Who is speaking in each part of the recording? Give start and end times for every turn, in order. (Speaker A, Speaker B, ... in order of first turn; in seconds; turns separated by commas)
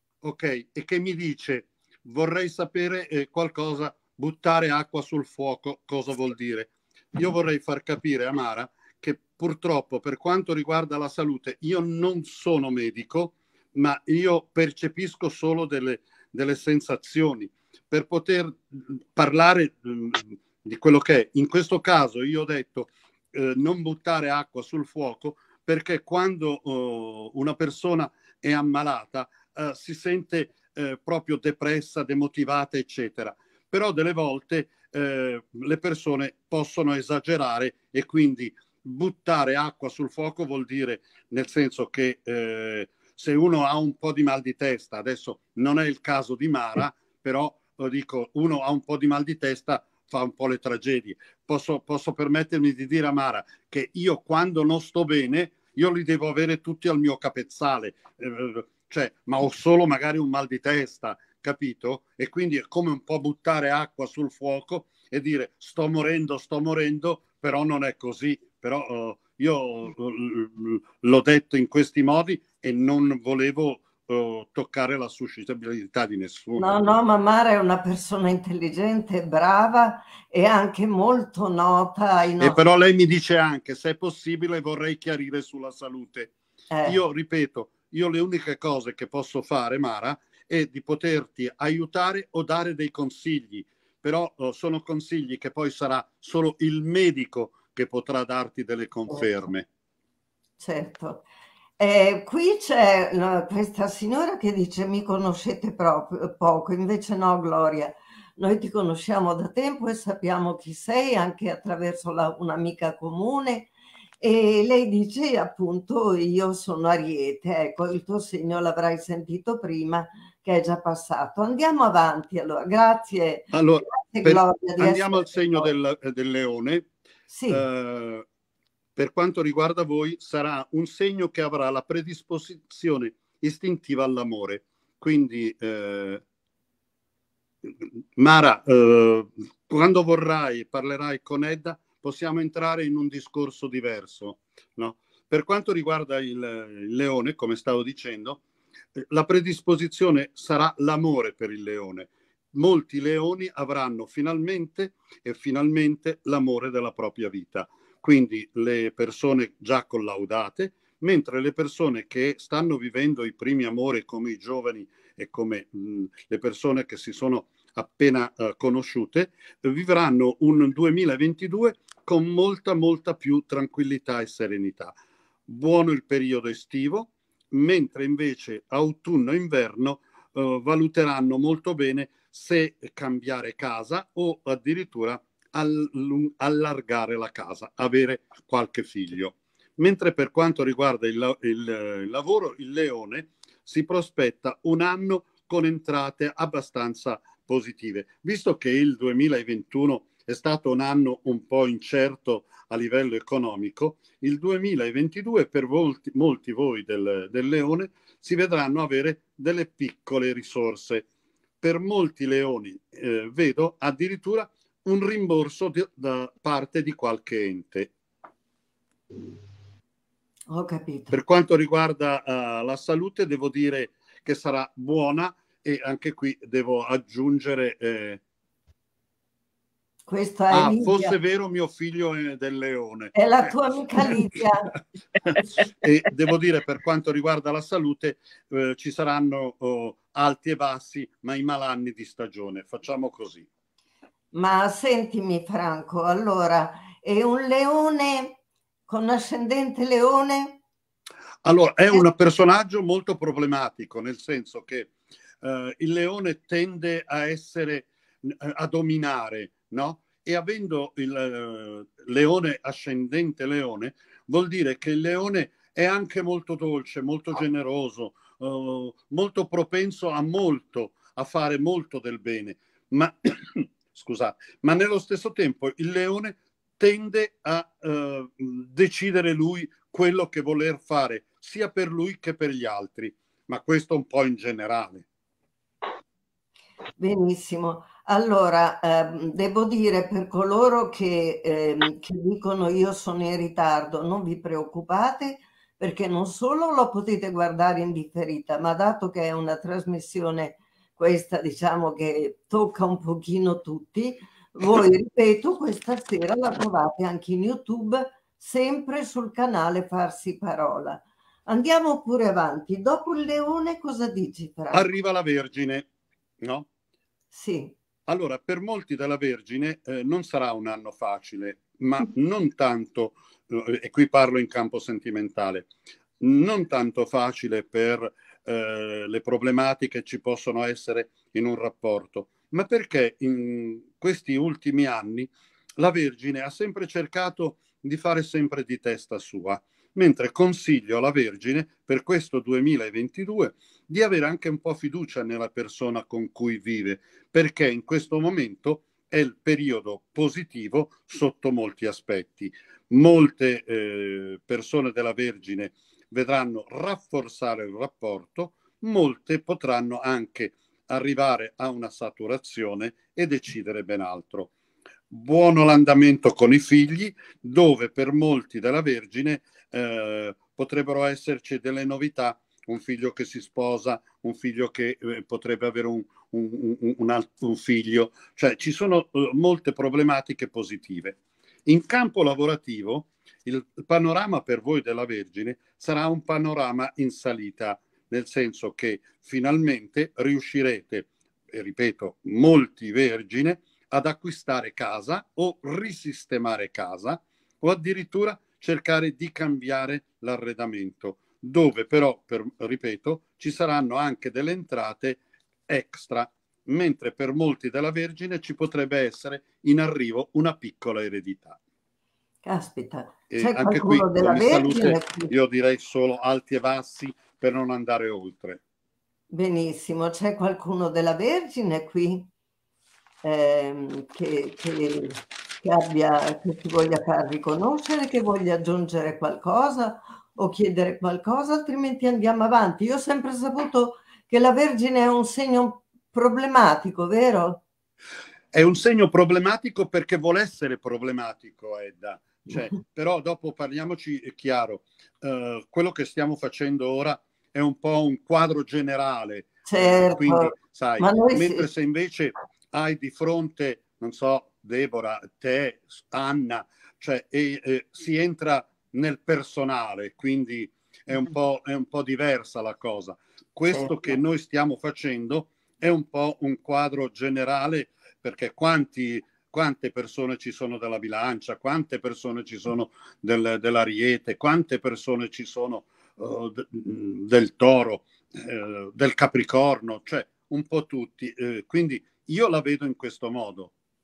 Speaker A: 0.2-76.9, Speaker B: 76.6-82.6, Speaker A: 82.4-86.3, Speaker B: 86.7-87.0, Speaker A: 86.8-99.7, Speaker B: 100.6-101.2, Speaker B: 101.8-125.7, Speaker A: 123.5-126.9, Speaker B: 127.3-127.7, Speaker A: 127.5-128.2, Speaker A: 129.0-136.2, Speaker A: 137.6-148.4, Speaker A: 148.9-174.9, Speaker A: 175.5-211.1, Speaker A: 211.6-217.9, Speaker B: 220.5-221.2, Speaker A: 221.1-228.2, Speaker B: 230.1-231.2, Speaker A: 230.5-234.1, Speaker B: 233.2-234.7, Speaker A: 235.7-243.5, Speaker B: 244.3-250.6, Speaker A: 251.4-254.9, Speaker A: 255.4-285.1, Speaker B: 287.0-314.9, Speaker A: 314.7-315.9, Speaker A: 316.4-316.7, Speaker B: 317.3-317.8, Speaker A: 318.1-364.5, Speaker A: 365.1-411.6, Speaker B: 412.4-415.3, Speaker A: 413.3-418.6, Speaker B: 419.3-422.3, Speaker B: 423.2-437.6, Speaker A: 438.5-483.7, Speaker B: 449.7-451.7